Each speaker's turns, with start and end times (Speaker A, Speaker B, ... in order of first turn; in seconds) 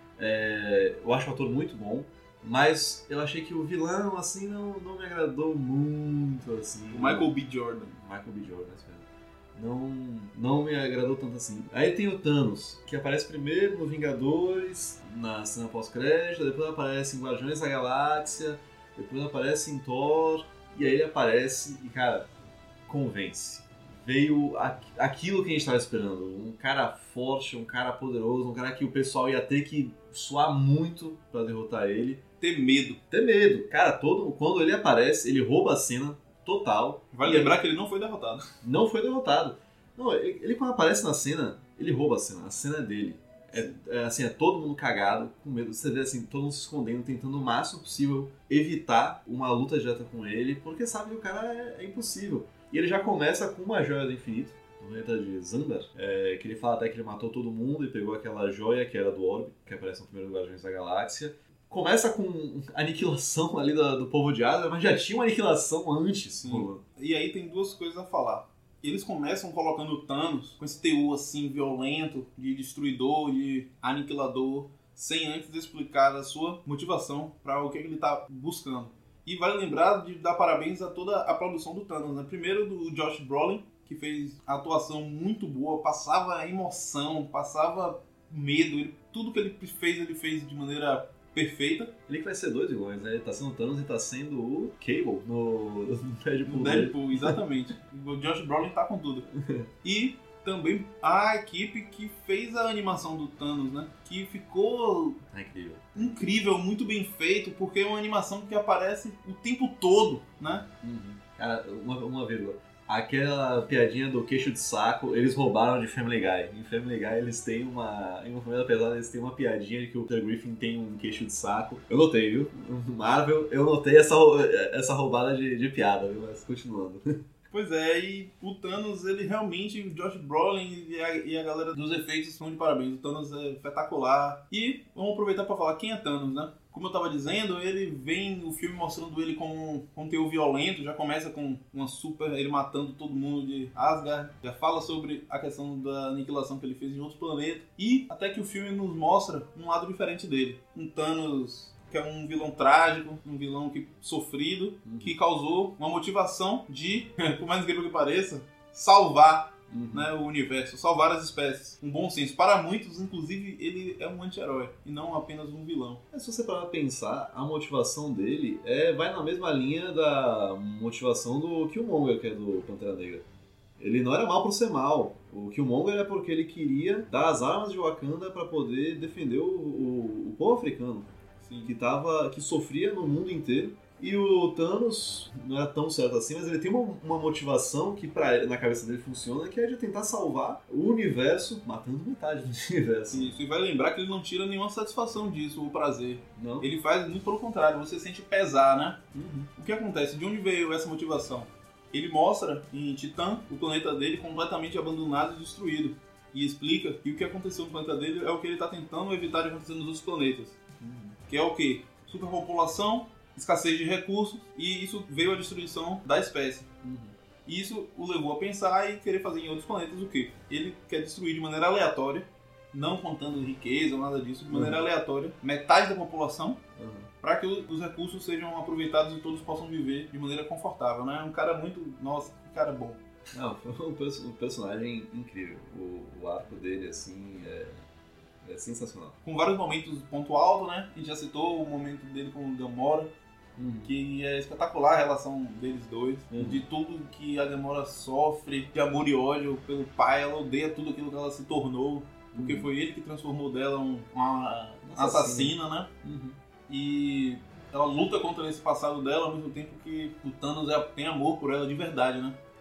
Speaker A: 0.2-22.3, 22.9-32.2, 33.1-37.6, 38.6-66.8, 92.1-97.4, 99.3-99.7, 105.3-106.2, 110.8-127.2, 154.8-155.2, 159.7-160.1, 166.1-173.2, 173.8-181.1, 181.6-193.3, 196.3-196.7, 199.1-199.5, 210.8-211.2, 216.8-217.1, 224.5-224.8, 226.8-227.1, 233.3-237.8, 238.4-239.2, 243.6-243.9, 246.3-246.6, 252.3-252.7, 254.8-256.4
Speaker B: 6.9-7.9, 32.4-33.0, 37.1-38.5, 66.4-91.9, 96.5-99.2, 99.8-105.2, 105.9-110.7, 127.5-166.0, 181.4-181.7, 193.1-199.0, 199.6-210.6, 211.3-216.7, 217.4-226.6, 227.2-233.0, 239.2-243.1, 243.8-255.9, 256.7-262.4